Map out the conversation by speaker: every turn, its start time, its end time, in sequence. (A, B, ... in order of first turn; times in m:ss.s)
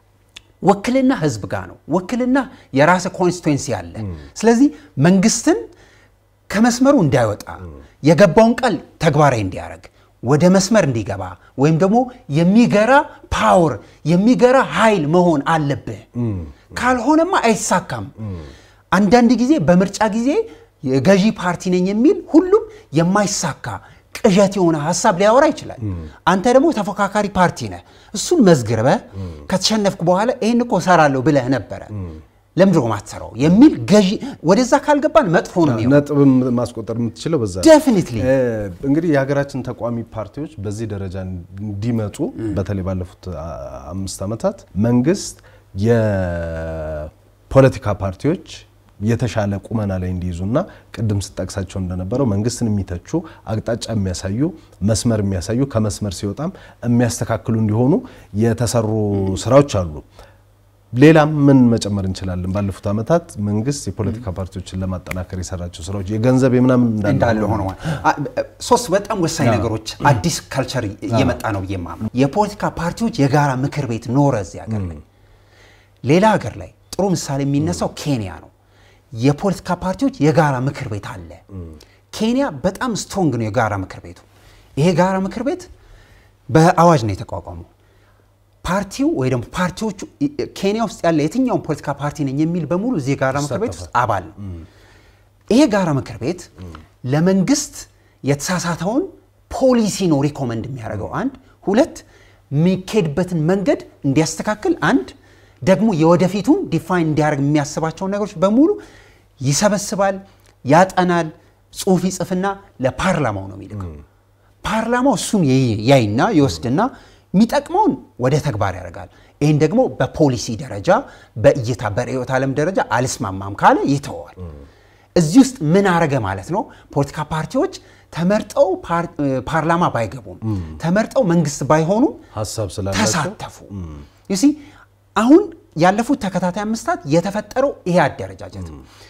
0:00.6-0:05.6 A
0:06.5-0:16.1 A
0:16.2-0:16.7 B
0:16.7-0:18.2 A
0:18.9-0:32.0 A
0:32.6-0:36.0 A
0:35.6-1:00.0 B
0:37.6-0:38.3 A
1:00.9-1:07.8 B
1:07.0-1:15.0 A
1:09.4-1:09.7 B
1:11.1-1:11.4 B
1:16.0-1:18.5 A
1:19.1-1:21.4 A
1:22.1-1:25.7 A
1:26.5-1:27.7 A
1:28.6-1:34.4 A
1:33.3-1:33.9 B
1:35.5-1:36.5 A
1:37.0-1:45.1 A
1:45.6-1:48.8 A
1:49.4-1:54.0 A
1:54.6-2:04.4 A
2:05.2-2:12.2 A
2:12.3-2:14.0 B
2:12.9-2:13.7 A
2:14.3-2:14.6 A
2:15.2-2:18.8 A